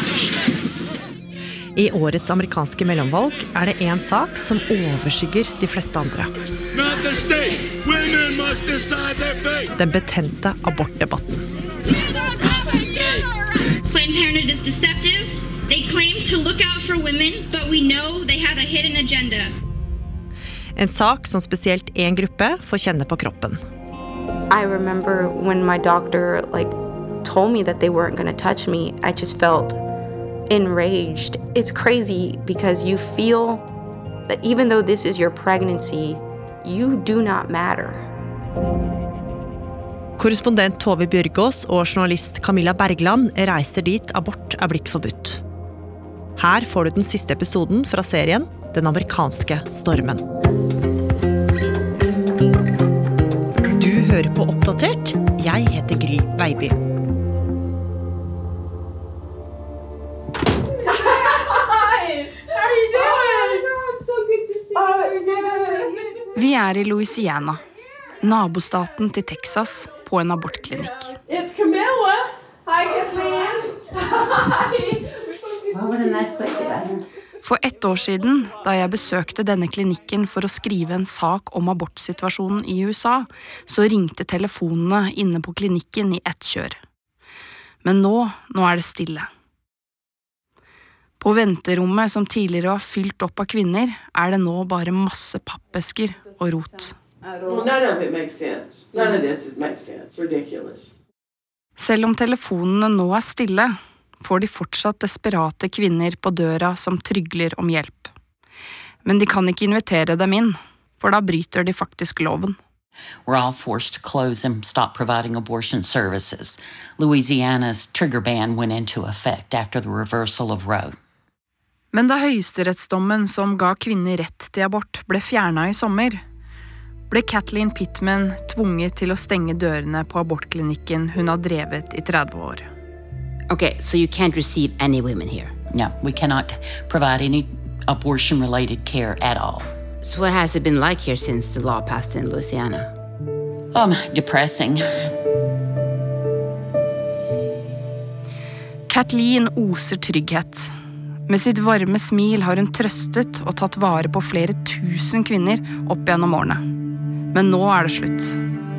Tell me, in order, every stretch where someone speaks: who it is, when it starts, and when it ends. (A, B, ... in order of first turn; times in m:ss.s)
0:01.7-0:06.3 A
0:09.7-0:11.4 A
0:13.9-0:19.5 B
0:20.8-0:23.6 A
0:24.5-0:29.8 C
0:30.5-0:33.6 C
0:34.3-0:38.0 C
0:40.2-0:45.4 A
0:46.4-0:50.2 A
0:53.8-0:56.8 A
1:01.3-1:02.0 B
1:02.6-1:06.0 B
1:06.3-1:07.6 D
1:08.2-1:11.1 D
1:11.3-1:12.3 E
1:12.7-1:15.0 B
1:15.7-1:17.0 F
1:17.4-1:26.8 D
1:27.8-1:29.3 D
1:31.2-1:37.0 D
1:37.5-1:40.9 E
1:41.8-1:48.1 D
1:49.0-1:52.6 D
1:53.2-2:01.0 G
2:01.9-2:06.2 D
2:07.1-2:12.7 D
2:13.5-2:15.5 F
2:15.7-2:19.7 G
2:20.0-2:22.9 F
2:23.7-2:24.8 G
2:28.9-2:30.7 D
2:31.3-2:36.6 D
2:37.3-2:38.4 D